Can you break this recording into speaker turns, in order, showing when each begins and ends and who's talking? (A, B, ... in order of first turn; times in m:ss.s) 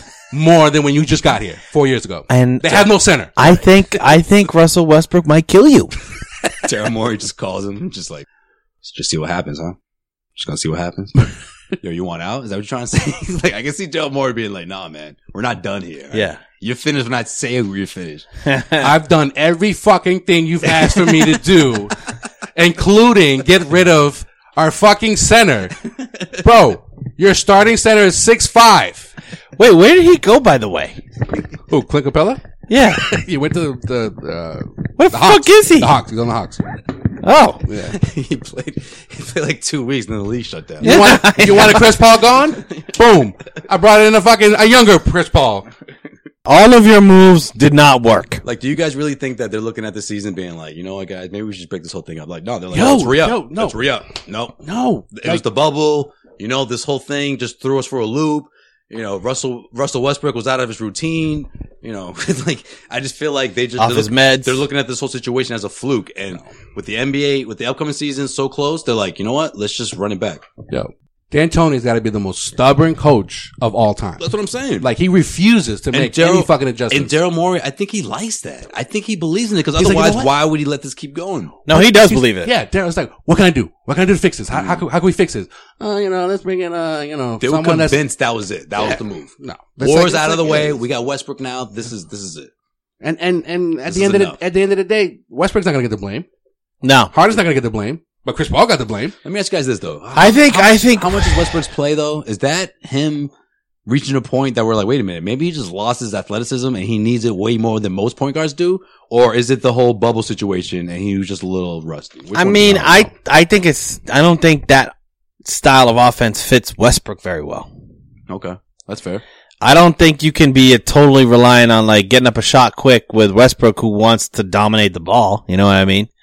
0:00.3-0:03.3 A
0:02.3-0:05.9 B
0:06.6-0:08.2 C
0:08.8-0:09.8 C
0:10.4-0:11.2 C
0:11.8-0:18.2 C
0:16.1-0:16.4 B
0:18.4-0:18.9 B
0:18.8-0:22.0 A
0:22.5-0:25.8 A
0:26.3-0:29.1 A
0:29.6-0:31.0 B
0:31.7-0:32.4 A
0:32.7-0:33.1 B
0:33.0-0:36.6 A
0:35.0-0:35.9 B
0:37.2-0:37.6 B
0:37.7-0:38.0 A
0:37.9-0:41.9 C
0:40.8-0:41.8 B
0:40.8-0:45.7 A
0:46.4-0:48.4 B
0:48.4-0:54.6 C
0:52.7-0:53.8 A
0:54.6-0:55.4 A
0:55.1-1:10.4 C
1:03.8-1:04.6 B
1:10.7-1:14.2 A
1:14.2-1:14.9 C
1:14.8-1:17.1 A
1:15.9-1:21.6 C
1:19.8-1:20.3 A
1:21.7-1:22.5 B
1:21.7-1:28.0 A
1:24.5-1:24.8 C
1:27.4-1:32.5 C
1:29.4-1:30.8 A
1:33.0-1:36.2 A
1:33.9-1:34.4 C
1:36.8-1:37.1 B
1:37.1-1:39.2 A
1:39.2-1:43.3 C
1:40.2-1:41.4 B
1:43.8-1:53.1 C
1:52.3-1:54.9 B
1:55.4-1:57.7 B
1:58.3-1:59.2 C
1:59.6-2:06.1 B